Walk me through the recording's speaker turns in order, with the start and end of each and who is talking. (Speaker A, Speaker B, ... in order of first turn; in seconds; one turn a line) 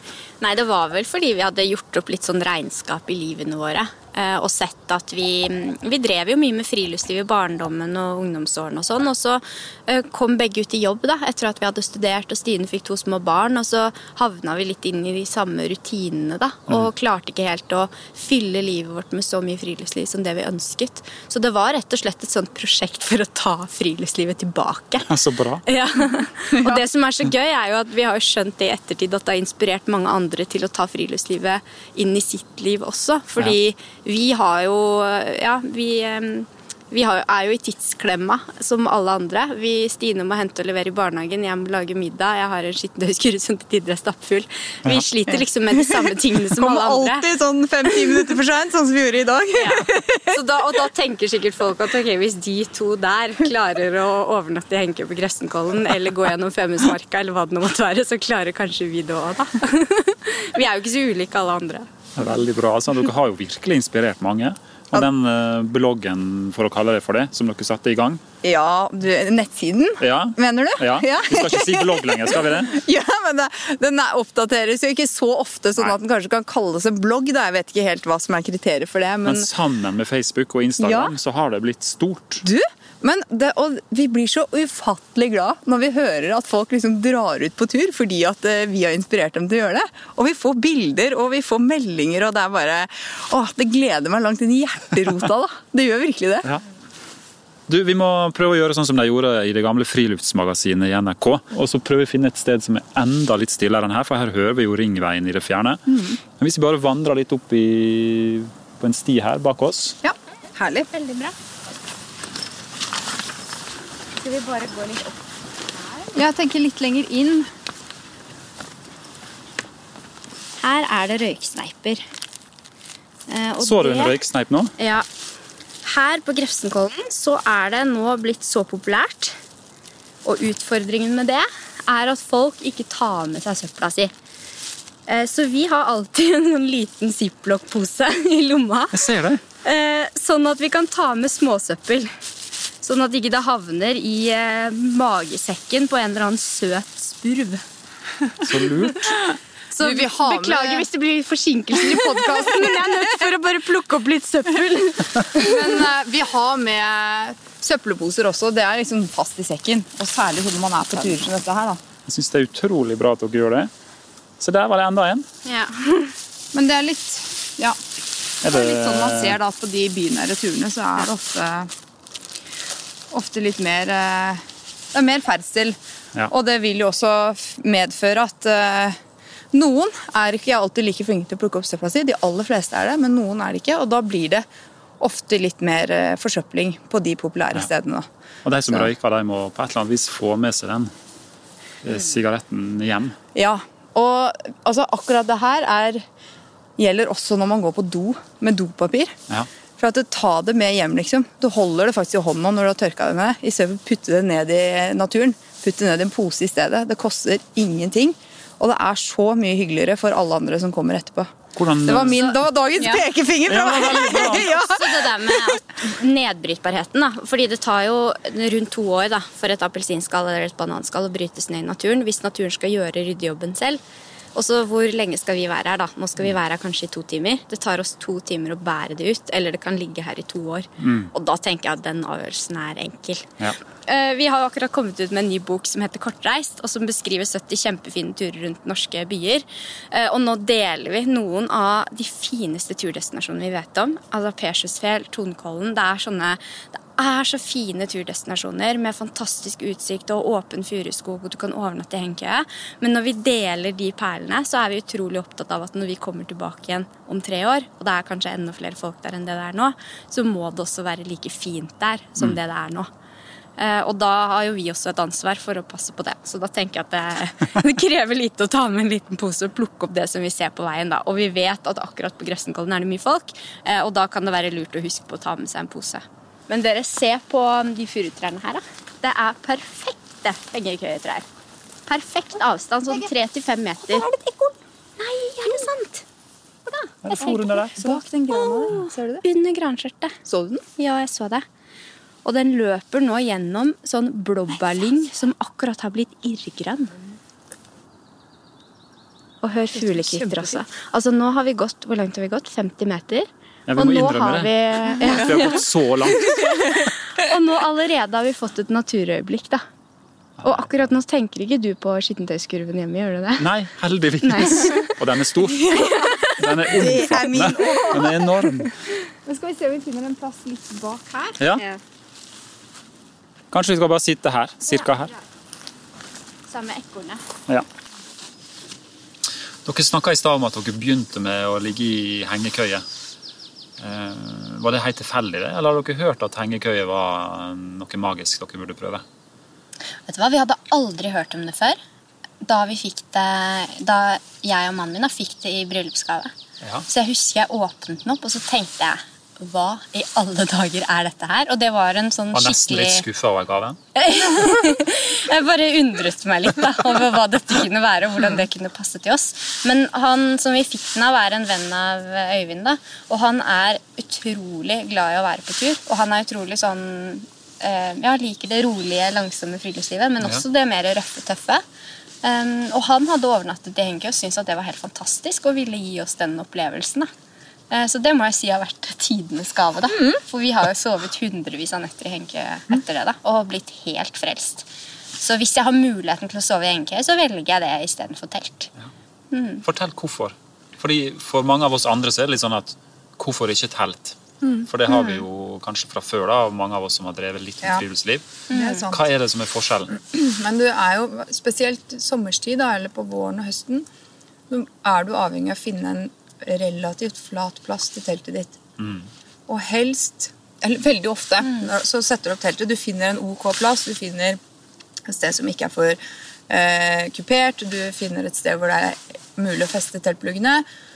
Speaker A: 0.4-25.1
Speaker B: 25.1-25.6
Speaker A: 25.6-47.3
Speaker C: 45.8-50.4
Speaker A: 49.6-61.9
Speaker B: 62.1-68.2
Speaker C: 68.4-79.5
Speaker B: 70.0-72.7
Speaker B: 79.2-82.4
Speaker C: 80.8-81.1
Speaker C: 82.4-96.5
Speaker B: 97.7-105.8
Speaker C: 105.9-106.2
Speaker B: 106.4-110.0
Speaker C: 110.0-110.9
Speaker A: 110.9-111.3
Speaker A: 114.2-115.2
Speaker A: 115.8-116.1
Speaker C: 116.1-117.5
Speaker A: 120.6-122.1
Speaker A: 123.3-124.2
Speaker B: 123.6-124.7
Speaker A: 124.8-125.1
Speaker A: 125.8-129.4
Speaker A: 130.2-134.1
Speaker A: 135.1-139.0
Speaker B: 138.9-139.4
Speaker A: 139.6-142.1
Speaker A: 142.8-147.6
Speaker B: 148.4-149.2
Speaker A: 149.7-155.6
Speaker C: 149.8-150.9
Speaker C: 151.8-153.3
Speaker C: 155.3-161.8
Speaker B: 162.1-163.7
Speaker B: 164.4-165.2
Speaker A: 165.4-166.1
Speaker C: 166.5-167.8
Speaker C: 168.4-171.7
Speaker B: 168.4-169.4
Speaker C: 173.1-175.8
Speaker C: 176.3-179.0
Speaker C: 179.5-184.4
Speaker C: 185.0-188.1
Speaker B: 188.4-190.9
Speaker B: 191.8-193.2
Speaker C: 193.3-196.1
Speaker C: 196.8-199.2
Speaker C: 199.8-215.6
Speaker B: 211.6-212.3
Speaker A: 212.8-213.0
Speaker B: 213.5-214.5
Speaker A: 213.8-223.8
Speaker A: 224.3-233.3
Speaker B: 230.8-231.1
Speaker A: 233.9-262.9
Speaker A: 263.6-281.2
Speaker A: 281.9-284.1
Speaker C: 283.8-284.6
Speaker A: 285.0-286.1
Speaker A: 286.7-287.7
Speaker B: 287.0-288.0
Speaker C: 287.2-289.2
Speaker A: 288.3-290.2
Speaker C: 290.2-290.6
Speaker A: 290.8-291.4
Speaker A: 292.2-296.9
Speaker A: 299.4-309.6
Speaker C: 299.7-300.6
Speaker B: 303.7-306.5
Speaker B: 310.4-310.7
Speaker A: 310.4-313.5
Speaker B: 313.4-318.7
Speaker A: 314.2-314.9
Speaker A: 315.6-317.0
Speaker C: 315.7-318.3
Speaker C: 319.2-321.4
Speaker A: 321.5-321.8
Speaker B: 323.5-325.1
Speaker A: 324.7-325.1
Speaker A: 326.5-327.2
Speaker B: 329.6-332.8
Speaker B: 333.8-339.0
Speaker A: 340.1-341.8
Speaker A: 342.4-346.3
Speaker A: 346.9-353.1
Speaker B: 352.3-353.8
Speaker A: 353.9-371.6
Speaker A: 372.2-377.1
Speaker A: 377.7-384.7
Speaker C: 379.9-380.2
Speaker A: 385.2-388.7
Speaker A: 389.3-389.6
Speaker B: 389.6-398.3
Speaker C: 394.4-394.7
Speaker A: 398.5-398.8
Speaker C: 398.5-399.1
Speaker B: 398.9-399.9
Speaker C: 399.9-403.9
Speaker C: 404.5-408.6
Speaker B: 408.8-409.1
Speaker C: 409.5-414.4
Speaker C: 415.1-420.6